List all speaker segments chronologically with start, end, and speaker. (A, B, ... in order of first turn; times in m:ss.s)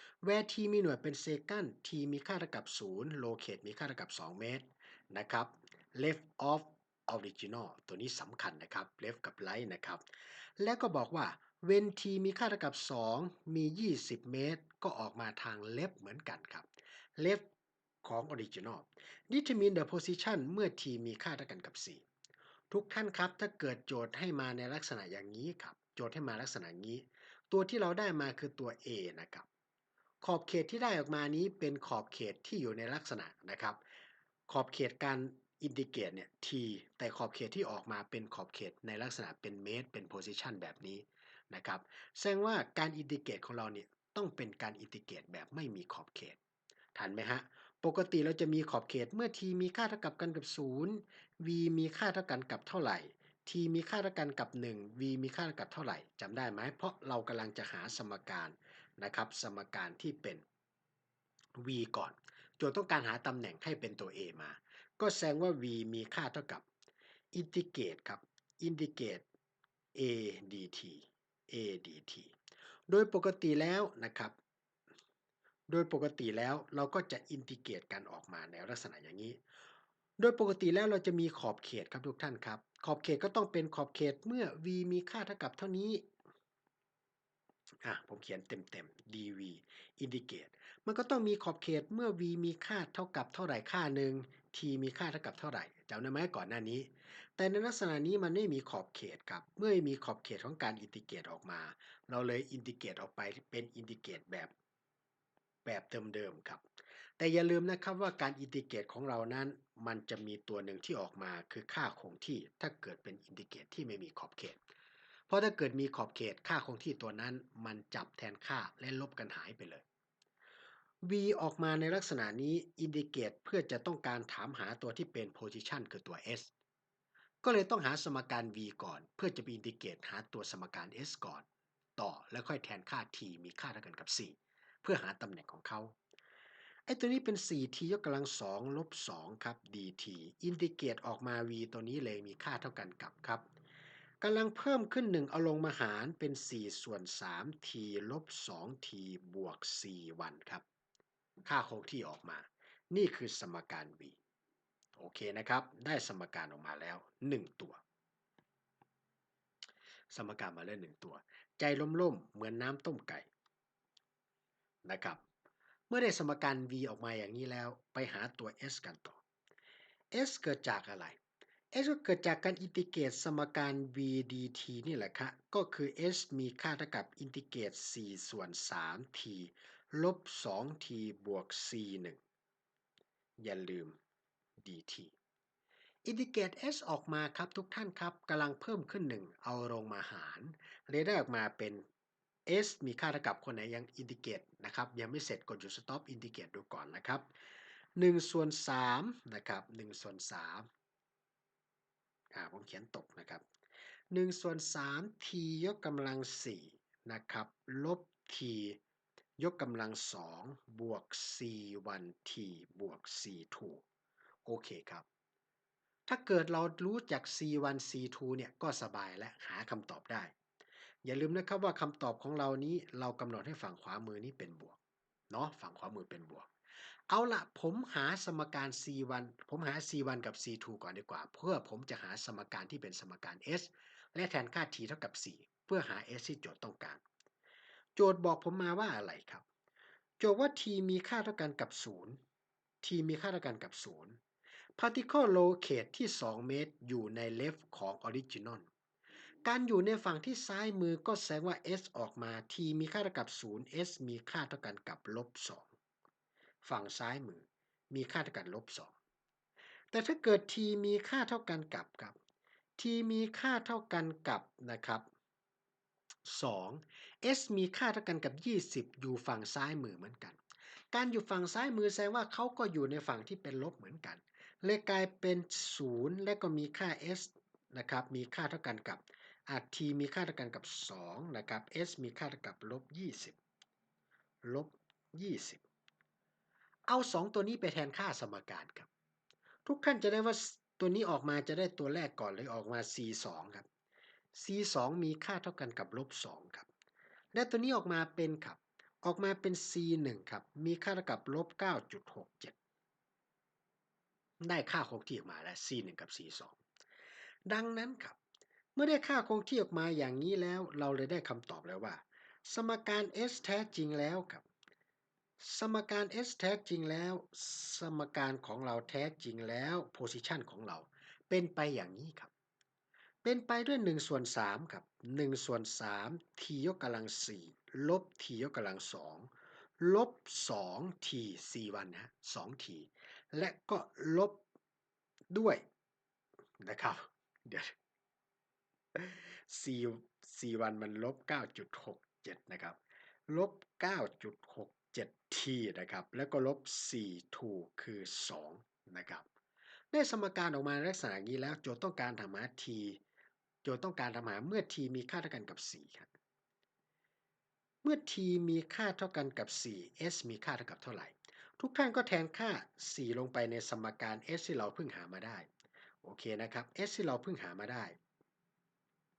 0:00.2-0:17.4 A
0:18.0-0:22.0 A
0:22.7-0:29.5 A
0:30.2-0:33.8 A
0:34.5-0:46.4 A
0:46.9-1:00.4 A
1:01.5-1:06.6 A
1:07.3-1:09.2 A
1:09.9-1:12.3 A
1:12.9-1:14.3 A
1:15.7-1:19.4 A
1:20.2-1:26.0 A
1:27.8-1:44.5 A
1:45.6-1:46.6 A
1:47.2-1:54.6 A
1:55.3-1:59.8 A
2:01.0-2:06.5 A
2:07.4-2:11.4 A
2:12.0-2:15.9 A
2:16.9-2:23.4 A
2:24.2-2:30.6 A
2:31.4-2:34.2 A
2:35.0-2:37.8 A
2:40.1-2:43.3 A
2:44.8-2:45.2 A
2:45.9-2:49.2 A
2:50.1-2:51.2 A
2:51.7-3:02.2 A
3:03.4-3:04.0 A
3:04.6-3:05.1 A
3:06.0-3:11.8 A
3:12.5-3:17.3 A
3:18.0-3:20.7 A
3:22.3-3:23.4 A
3:24.1-3:28.8 A
3:29.4-3:33.8 A
3:34.4-3:35.0 A
3:36.1-3:40.3 A
3:41.0-3:44.8 A
3:45.3-3:46.5 A
3:47.1-3:57.0 A
3:58.0-3:59.4 A
4:00.2-4:02.2 A
4:02.8-4:04.2 A
4:04.8-4:08.7 A
4:09.4-4:15.7 A
4:16.6-4:18.9 A
4:19.9-4:22.1 A
4:22.8-4:25.0 A
4:26.2-4:30.4 A
4:30.9-4:43.4 A
4:44.4-4:45.6 A
4:46.9-4:48.9 A
4:49.6-4:53.6 A
4:54.3-4:56.7 A
4:57.3-5:02.5 A
5:04.4-5:06.6 A
5:07.5-5:08.2 A
5:08.7-5:14.4 A
5:15.4-5:22.3 A
5:23.2-5:34.4 A
5:35.3-5:35.6 A
5:36.6-5:37.7 A
5:38.9-5:42.8 A
5:43.3-5:49.2 A
5:49.9-5:53.0 A
5:53.6-5:56.1 A
5:57.8-6:05.5 A
6:06.0-6:08.0 A